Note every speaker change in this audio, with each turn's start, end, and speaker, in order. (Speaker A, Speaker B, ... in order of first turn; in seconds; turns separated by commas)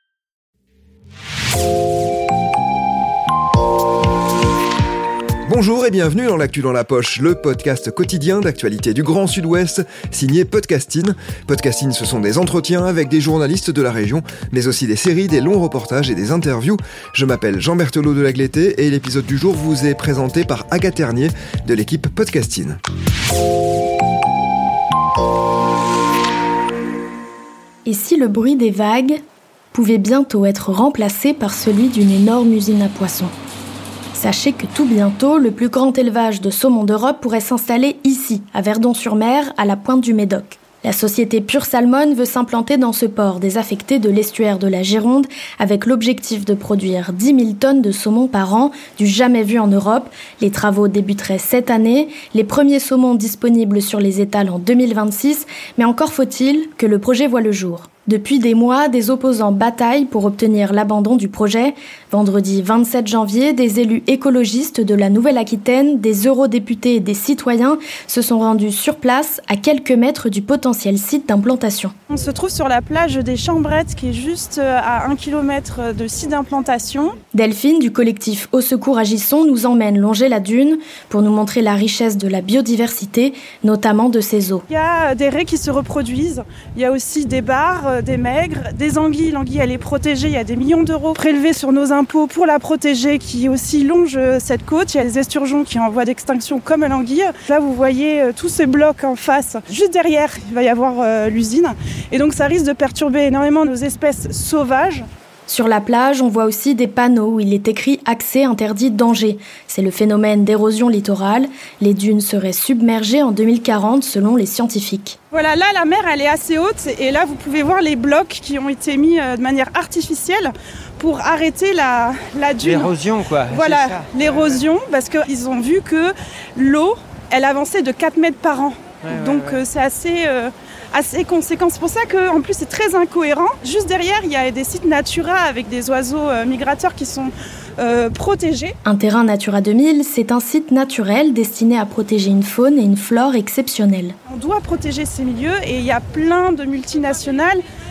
Speaker A: 5.5-22.8, Speaker B: 27.9-29.2, Speaker B: 29.7-33.3, Speaker B: 34.1-71.9, Speaker C: 72.1-77.1, Speaker B: 77.3-84.6, Speaker C: 84.7-105.0, Speaker B: 105.5-115.2, Speaker C: 115.3-138.7, Speaker B: 138.8-144.1, Speaker C: 144.3-147.6